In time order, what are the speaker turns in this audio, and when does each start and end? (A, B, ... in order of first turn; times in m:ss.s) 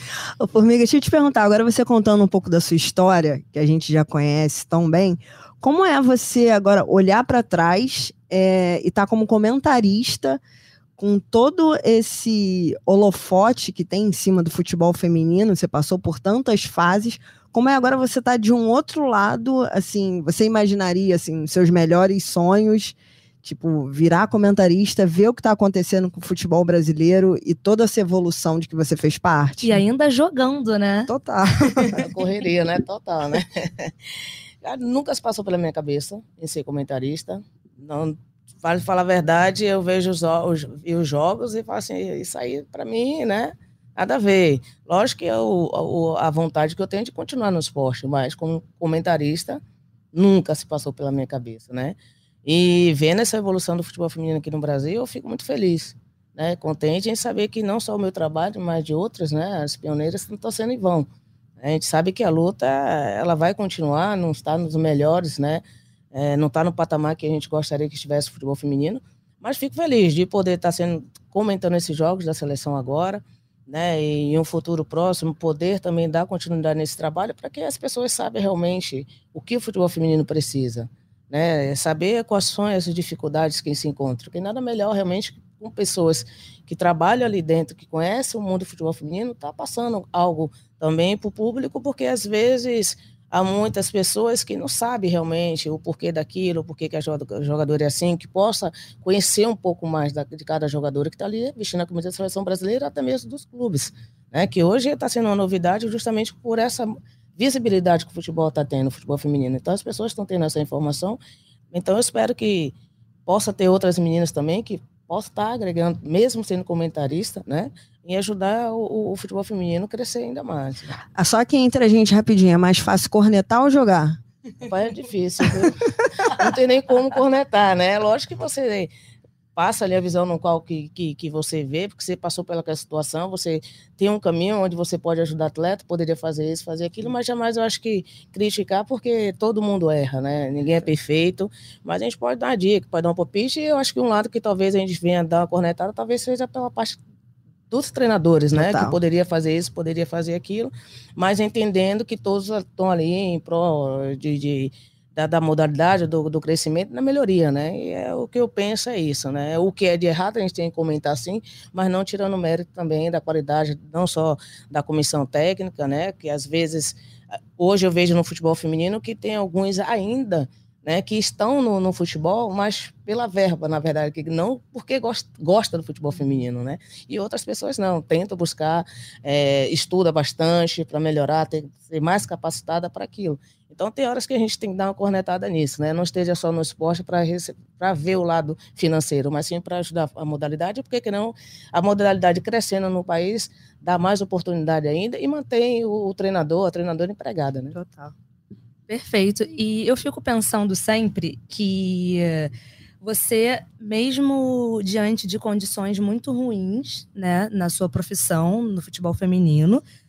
0:00.4-0:10.4 A
0:11.0-0:29.8 A
0:29.6-0:31.1 B
0:31.1-0:32.0 A
0:31.8-0:32.0 B
0:32.0-0:33.9 C
0:34.6-0:49.6 C
0:50.1-1:01.1 C
1:01.6-1:51.2 C
1:51.7-1:52.8 C
1:53.3-2:01.0 C
2:01.2-2:04.2 A
2:04.6-2:08.9 C
2:09.6-2:27.0 C
2:27.7-2:47.0 C
2:28.6-2:29.0 A
2:47.6-3:17.8 C
3:17.7-3:18.1 A
3:18.9-3:29.8 B